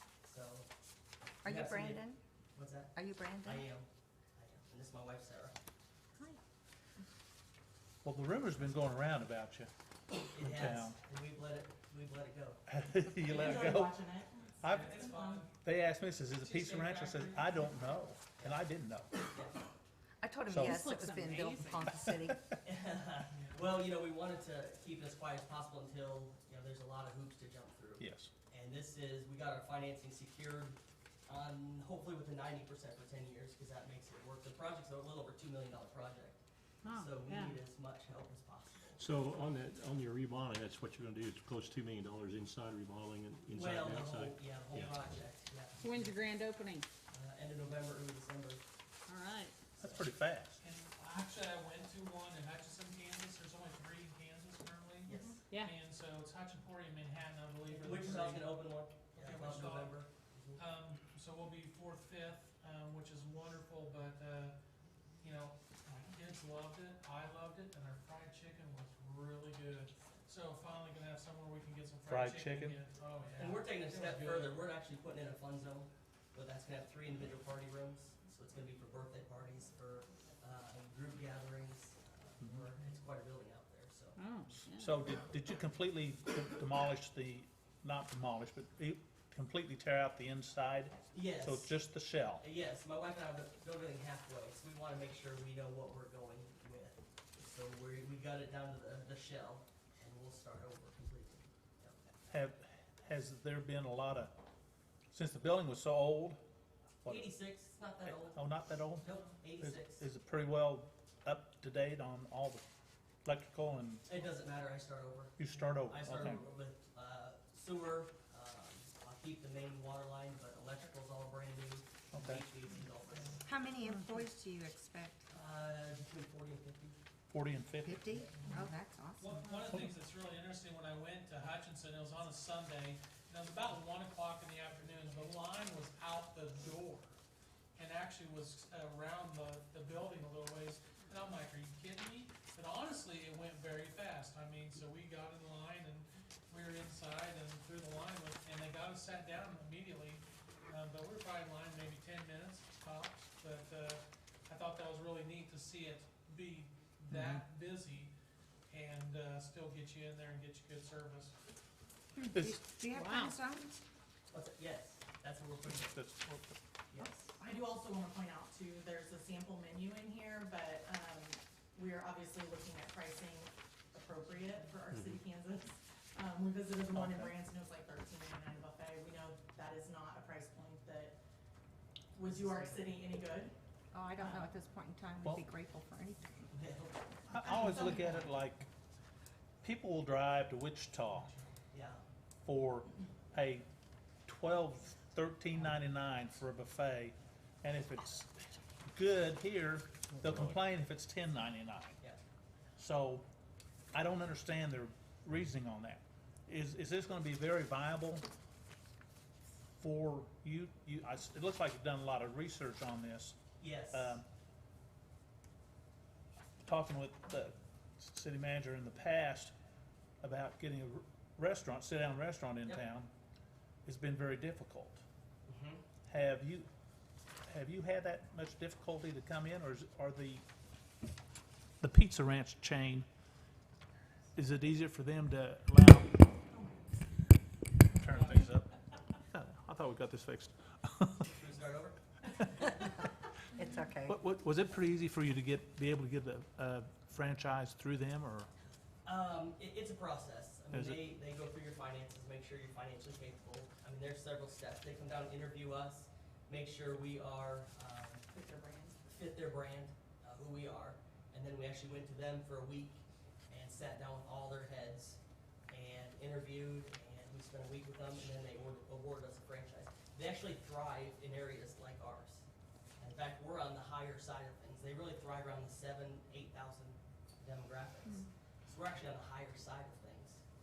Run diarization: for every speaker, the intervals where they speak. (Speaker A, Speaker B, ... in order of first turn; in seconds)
Speaker A: 0.2-0.7, 1.4-5.5, 10.3-12.6, 19.3-19.6, 22.6-39.0, 43.5-46.1, 47.1-48.6, 55.0-55.4, 57.7-60.6, 73.3-84.2, 91.1-91.8, 92.4-102.0, 107.0-108.4, 109.0-110.0, 114.1-115.3, 115.9-123.4, 125.3-127.0, 164.3-166.0, 166.9-167.2, 182.2-182.9, 186.5-187.1, 191.7-192.0, 213.6-214.2, 225.5-225.8, 241.3-242.0, 249.0-258.3, 259.1-272.4, 273.0-280.4
Speaker B: 1.4-2.2, 2.9-3.6, 20.2-22.4, 123.4-125.3, 127.8-129.7, 162.2-163.8, 183.9-186.4, 243.5-244.2
Speaker C: 8.0-9.7, 10.4-10.9, 12.7-14.0, 14.6-15.0, 15.6-19.1, 20.5-20.8, 28.0-28.3, 49.8-50.6, 72.0-72.8, 84.7-92.4, 102.3-104.3, 105.1-106.4, 107.0-107.3, 108.1-109.1, 109.6-112.6, 113.2-114.0, 115.4-116.4, 122.1-122.4, 127.3-128.3, 157.1-157.4, 162.3-162.6, 165.7-166.6, 176.9-177.3, 187.3-188.7, 189.6-191.3, 192.4-193.7, 194.2-202.0, 202.8-203.2, 203.9-208.2, 209.8-213.4, 213.9-214.2, 216.6-219.5, 220.2-223.1, 223.8-225.0, 226.1-226.7, 227.4-230.4, 231.8-233.1, 234.3-236.2, 237.9-238.7, 239.3-241.3, 244.1-248.5, 250.7-251.0
Speaker D: 13.2-15.4, 55.1-55.4, 167.4-181.2, 182.1-183.5, 187.4-188.2, 236.5-237.1, 258.3-259.1
Speaker E: 14.6-15.5, 16.4-17.4, 23.3-23.6, 50.6-60.0, 60.5-64.5, 65.2-74.6, 129.2-137.2, 137.8-158.1, 158.7-161.4, 238.1-238.4
Speaker F: 20.6-21.9, 36.8-37.6, 45.8-46.9, 49.1-49.5, 84.2-85.0, 162.9-163.4
Speaker G: 39.0-45.0, 200.2-200.5